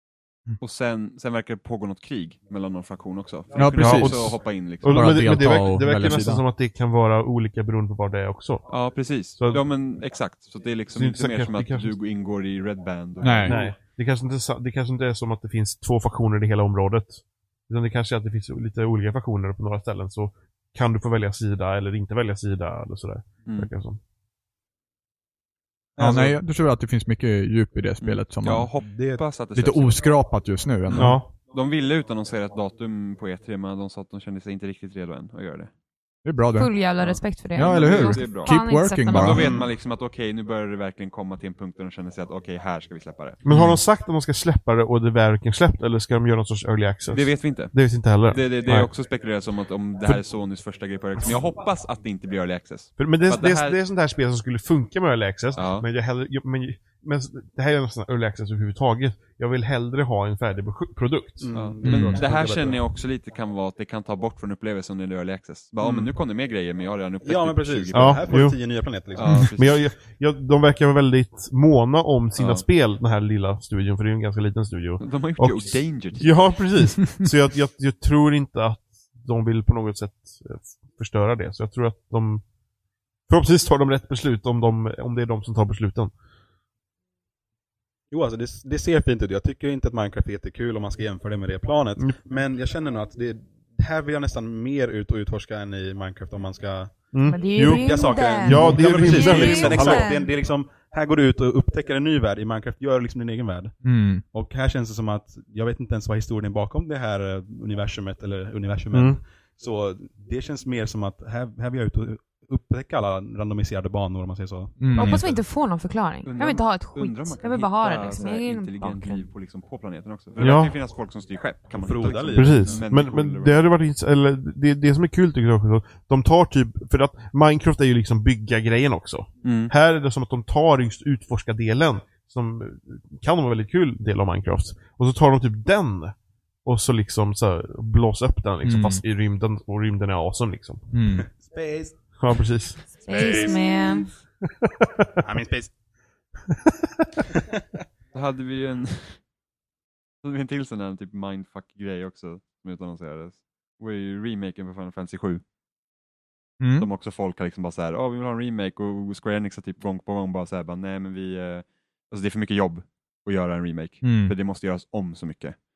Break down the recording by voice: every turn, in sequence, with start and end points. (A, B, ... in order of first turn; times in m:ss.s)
0:00.6-0:05.2 A
0:03.6-0:06.4 B
0:03.7-0:08.8 C
0:08.7-0:13.7 A
0:09.4-0:09.7 C
0:10.9-0:12.0 C
0:13.2-0:13.6 B
0:13.4-0:24.0 C
0:26.0-0:26.4 D
0:26.0-0:28.7 B
0:28.0-0:30.1 A
0:28.8-0:29.2 D
0:29.5-0:31.2 B
0:30.9-0:35.7 A
0:31.0-0:31.3 C
0:36.2-0:36.8 B
0:36.6-0:39.5 E
0:37.0-0:43.4 A
0:37.5-0:39.6 B
0:39.4-0:39.7 D
0:43.4-0:48.9 C
0:43.5-0:43.8 B
0:47.1-0:53.8 A
0:53.0-1:01.5 C
0:55.6-0:55.8 A
1:01.4-1:02.8 D
1:01.5-1:08.5 A
1:01.8-1:02.2 B
1:05.8-1:06.1 D
1:07.2-1:09.5 D
1:07.9-1:08.6 C
1:09.1-1:09.8 A
1:09.4-1:22.4 C
1:12.4-1:12.6 A
1:15.0-1:16.6 A
1:23.3-1:26.1 C
1:28.1-1:55.4 D
1:37.1-1:40.1 C
1:37.3-1:40.3 E
1:43.8-1:44.2 B
1:48.9-1:49.2 C
1:54.8-1:55.2 B
1:54.9-1:59.2 E
1:56.2-2:03.7 A
2:00.4-2:00.7 C
2:01.7-2:03.0 D
2:02.3-2:20.8 C
2:09.4-2:09.7 A
2:18.6-2:19.0 B
2:20.9-2:21.3 B
2:21.3-2:22.0 D
2:22.2-2:22.8 C
2:23.0-2:24.1 E
2:23.1-2:24.1 D
2:24.6-2:25.1 C
2:25.2-2:25.7 D
2:26.7-2:27.1 C
2:28.1-2:29.3 A
2:30.2-2:35.4 A
2:36.6-2:36.9 B
2:36.8-2:45.6 A
2:44.0-2:44.4 B